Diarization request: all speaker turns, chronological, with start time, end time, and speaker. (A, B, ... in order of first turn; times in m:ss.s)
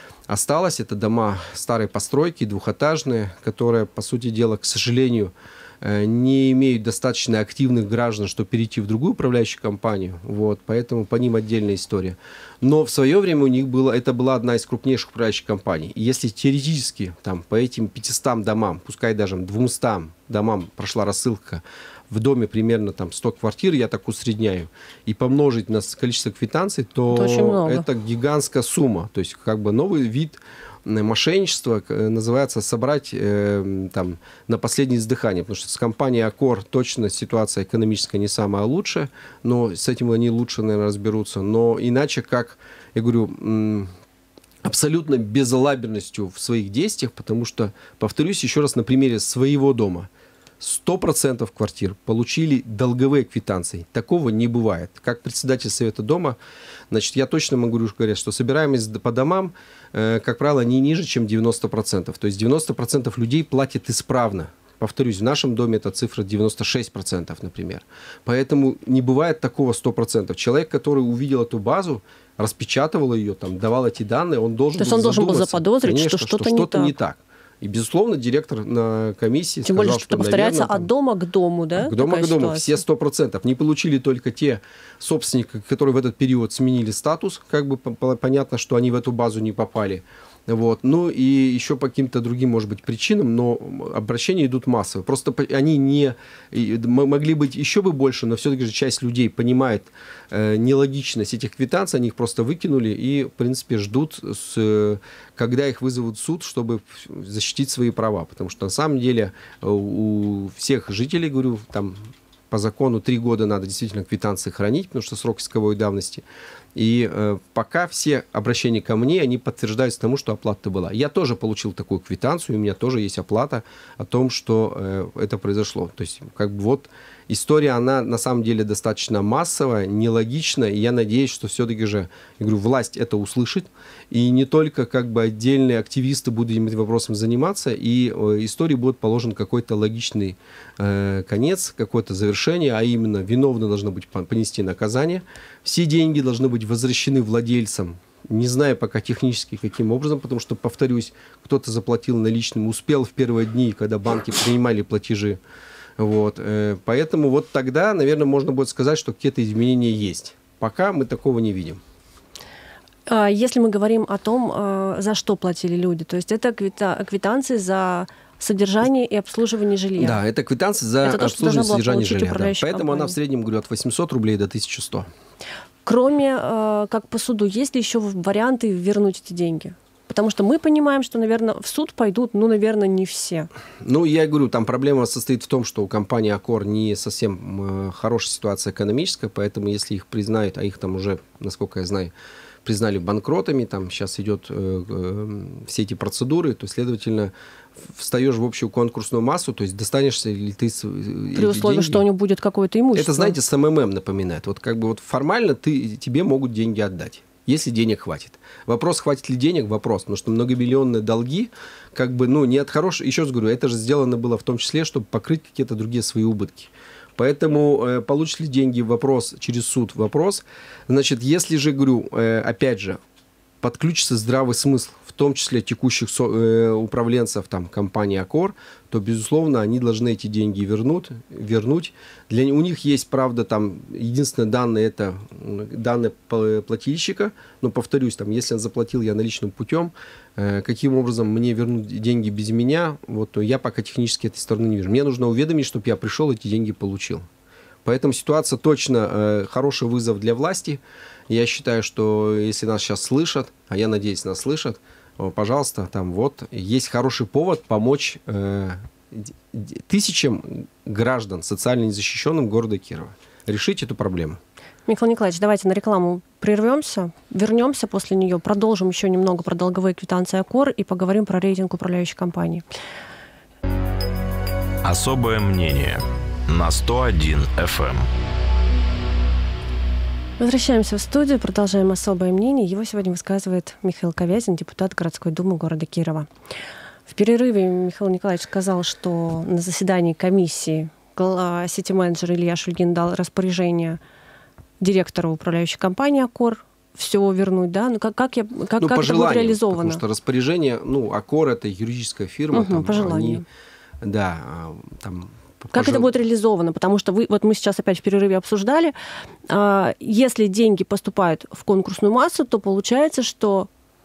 0:00.3-0:43.9 A
0:27.1-0:27.9 B
0:44.6-0:50.1 A
0:50.6-0:56.4 A
0:56.9-1:20.9 A
1:14.8-1:16.9 B
1:19.6-1:22.8 B
1:21.8-1:56.2 A
1:56.8-2:35.4 A
2:36.0-2:41.8 A
2:43.1-2:50.2 B
2:50.0-2:55.1 A
2:51.0-2:53.2 B
2:55.9-3:03.5 B
3:03.8-3:12.1 A
3:12.6-3:22.1 A
3:21.3-3:23.4 B
3:22.9-3:43.0 A
3:43.6-4:07.2 A
4:07.8-4:24.4 A
4:24.9-4:32.6 B
4:34.8-4:38.1 C
4:40.4-4:46.3 B
4:47.1-4:54.0 B
4:54.8-5:00.0 B
4:58.8-5:03.4 A
5:02.5-5:03.4 B
5:04.0-5:06.1 A
5:05.7-5:08.9 B
5:09.5-5:13.7 B